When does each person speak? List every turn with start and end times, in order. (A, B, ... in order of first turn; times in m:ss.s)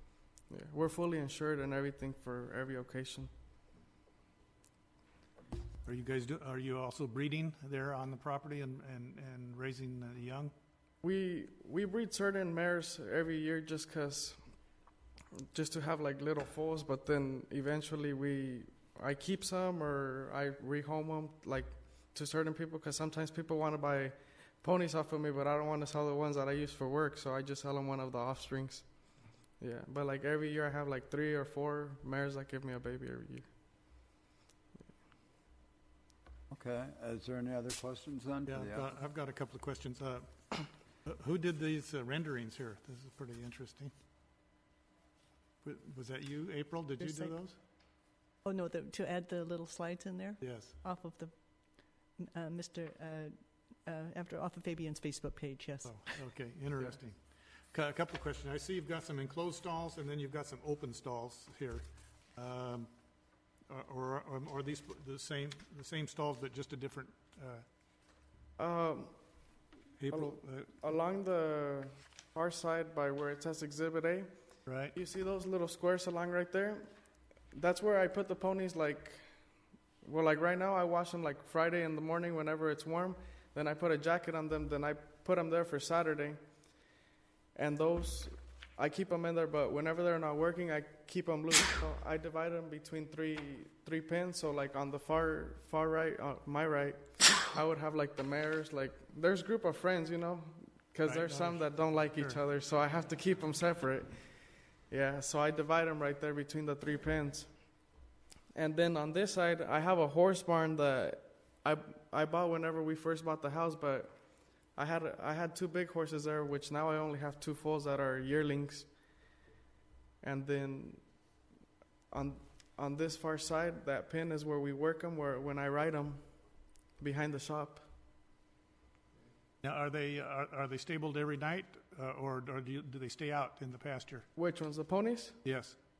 0:00.5-0:03.3 A
0:05.8-0:10.5 B
0:11.0-0:14.4 A
0:15.4-0:28.9 A
0:29.6-0:33.5 A
0:36.5-0:38.9 C
0:38.5-0:43.9 B
0:45.6-0:47.6 B
0:47.0-0:47.3 D
0:48.4-0:53.3 D
0:50.4-0:50.8 B
0:53.8-0:56.2 D
0:55.8-0:57.2 B
0:57.7-1:01.8 B
1:02.4-1:02.9 B
1:03.7-1:07.6 B
1:08.6-1:09.2 A
1:10.0-1:10.8 B
1:10.1-1:14.3 A
1:14.6-1:15.0 B
1:14.9-1:16.9 A
1:17.5-1:19.3 A
1:20.0-1:26.4 A
1:27.5-1:44.3 A
1:41.0-1:42.4 B
1:44.9-1:47.5 A
1:48.5-1:54.2 A
1:54.7-1:58.9 A
2:00.2-2:01.0 A
2:02.1-2:06.2 A
2:07.0-2:07.8 A
2:09.6-2:14.2 B
2:14.3-2:15.4 A
2:15.4-2:15.8 B